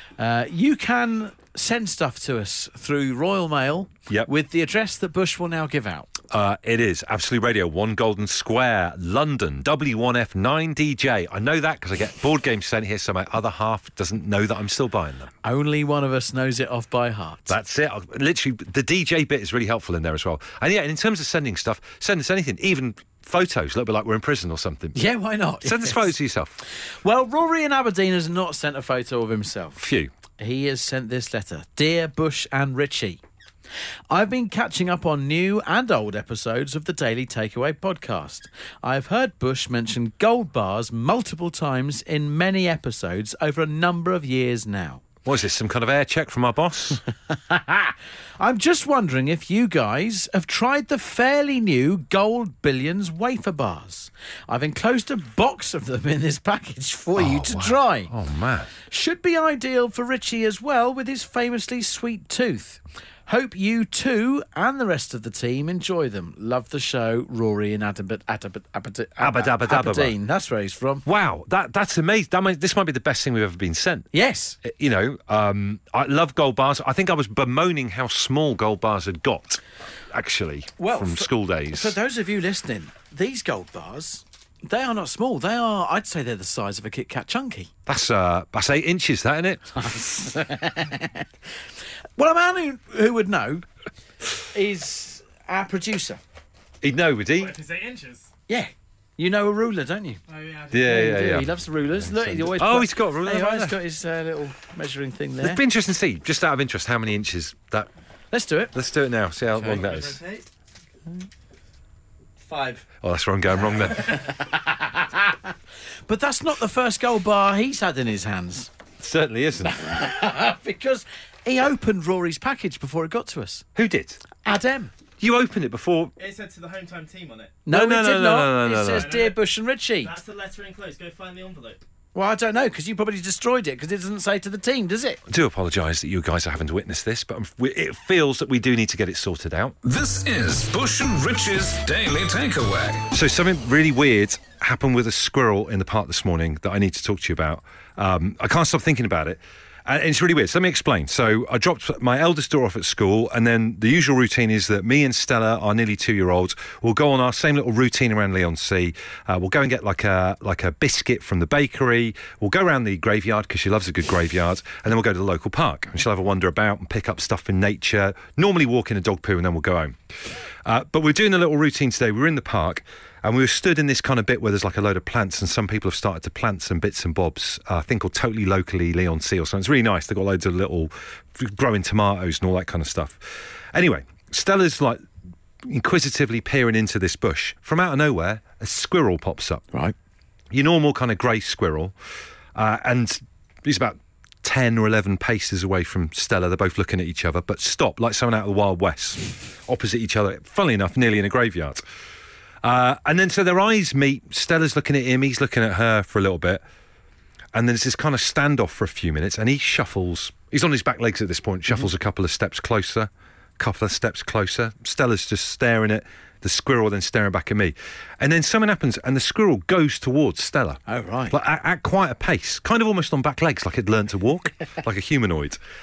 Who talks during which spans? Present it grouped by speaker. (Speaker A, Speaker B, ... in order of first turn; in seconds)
Speaker A: 0.2-6.1, 15.4-17.6, 24.9-26.1, 27.0-29.8, 30.4-33.2, 34.1-45.0, 47.3-58.1, 58.9-71.0, 74.1-74.6, 80.8-87.7, 89.8-91.3, 92.2-93.7, 94.5-96.2, 98.5-100.2, 100.8-105.6, 108.3-108.7, 112.5-112.8, 114.1-115.5, 116.1-118.7, 119.7-123.7, 124.4-124.9, 127.7-130.1, 132.2-135.2, 220.9-221.4
Speaker B: 6.3-15.3, 17.5-25.0, 25.6-26.6, 29.8-30.1, 45.2-47.0, 57.1-58.7, 69.2-70.2, 71.0-74.1, 74.6-82.0, 87.9-89.9, 96.8-97.6, 100.7-103.8, 105.4-107.9, 108.7-110.2, 113.0-114.2, 119.0-120.0, 123.8-124.2, 125.2-126.1, 127.7-129.1, 135.3-139.8, 143.1-170.0, 170.7-185.0, 185.6-189.6, 190.5-191.9, 192.6-201.8, 202.6-206.6, 207.5-225.6
Speaker C: 97.3-98.3, 100.3-101.4, 109.6-110.5, 126.2-127.7, 128.9-129.4, 130.0-131.8
Speaker D: 139.8-143.1